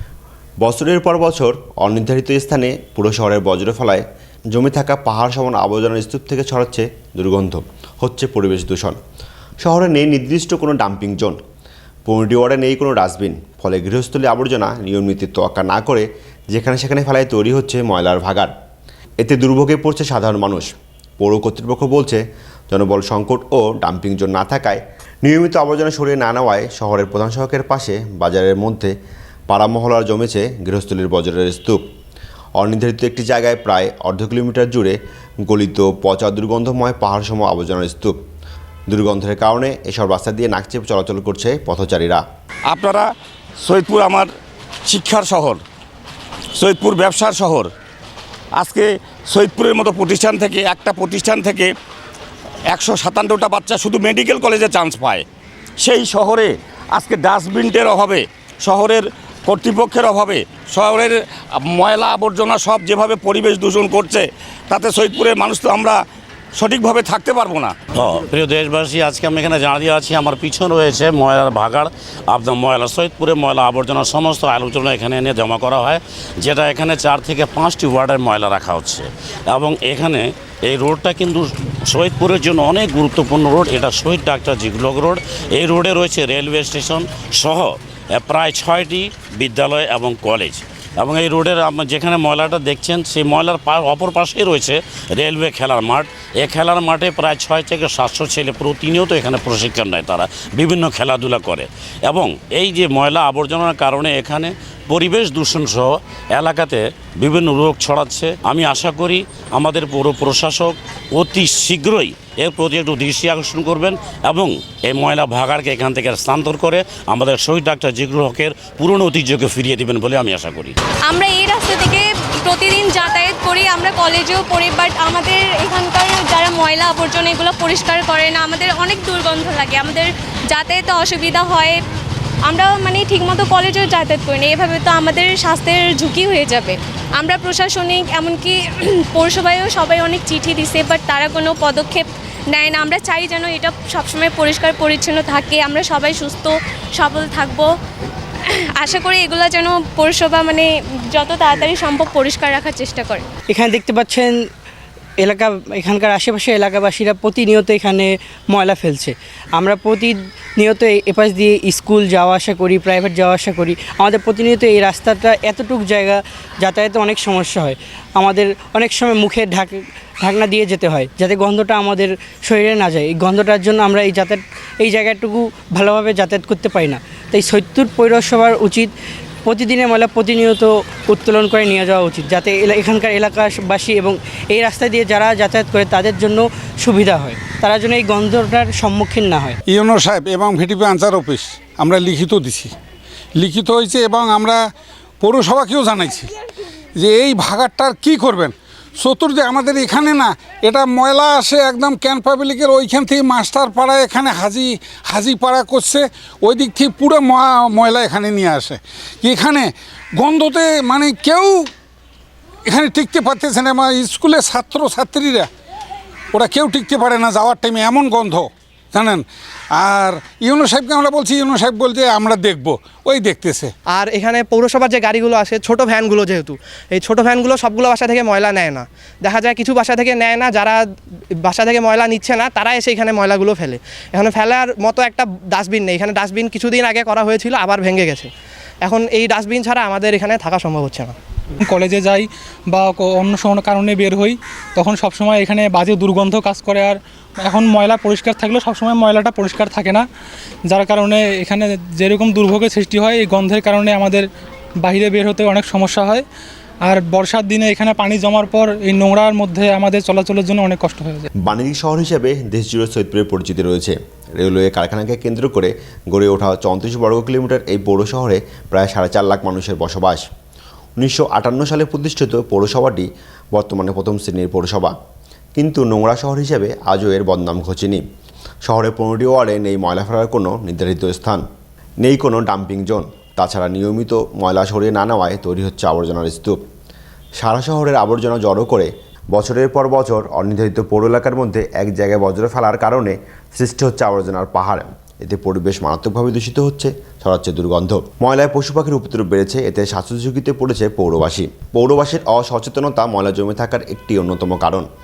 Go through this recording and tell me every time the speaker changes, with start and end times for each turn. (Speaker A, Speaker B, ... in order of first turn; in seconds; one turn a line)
Speaker A: 0.6-9.0
Speaker A: 9.6-11.4
Speaker A: 12.1-18.5
Speaker A: 19.2-28.9
Speaker A: 29.5-31.8
Speaker A: 32.6-35.0
Speaker A: 35.5-38.1
Speaker A: 38.9-42.2
Speaker B: 42.7-43.0
Speaker B: 43.6-44.2
Speaker B: 44.9-45.5
Speaker B: 46.6-47.7
Speaker B: 48.6-51.7
Speaker B: 52.7-55.2
Speaker B: 55.9-56.5
Speaker B: 57.0-61.1
Speaker B: 61.7-64.2
Speaker B: 64.7-65.9
Speaker B: 66.6-67.7
Speaker C: 68.0-120.7
Speaker D: 121.1-131.8
Speaker D: 132.5-147.7
Speaker D: 148.5-153.3
Speaker E: 153.5-154.3
Speaker E: 155.2-178.9
Speaker E: 179.4-189.6
Speaker F: 189.8-192.7
Speaker G: 189.9-192.1
Speaker F: 193.4-194.6
Speaker F: 195.2-196.1
Speaker G: 197.1-197.7
Speaker F: 197.1-198.5
Speaker F: 199.0-201.1
Speaker G: 199.2-200.6
Speaker G: 201.1-204.4
Speaker F: 201.8-205.9
Speaker G: 205.5-206.0
Speaker F: 206.4-208.7
Speaker G: 206.6-207.3
Speaker G: 208.4-208.8
Speaker F: 209.2-211.5
Speaker G: 210.6-211.4
Speaker F: 212.7-215.4
Speaker G: 213.2-213.7
Speaker F: 216.3-218.4
Speaker G: 216.8-217.2
Speaker F: 218.9-219.2
Speaker F: 219.8-223.6
Speaker H: 223.9-230.8
Speaker H: 231.4-238.3
Speaker H: 238.8-241.1
Speaker G: 241.6-250.0
Speaker G: 250.7-254.3
Speaker G: 254.8-256.2
Speaker G: 256.9-261.3
Speaker A: 261.4-270.2
Speaker A: 271.0-274.9
Speaker A: 275.6-278.0
Speaker A: 278.6-281.4
Speaker A: 282.0-286.6
Speaker A: 287.4-304.9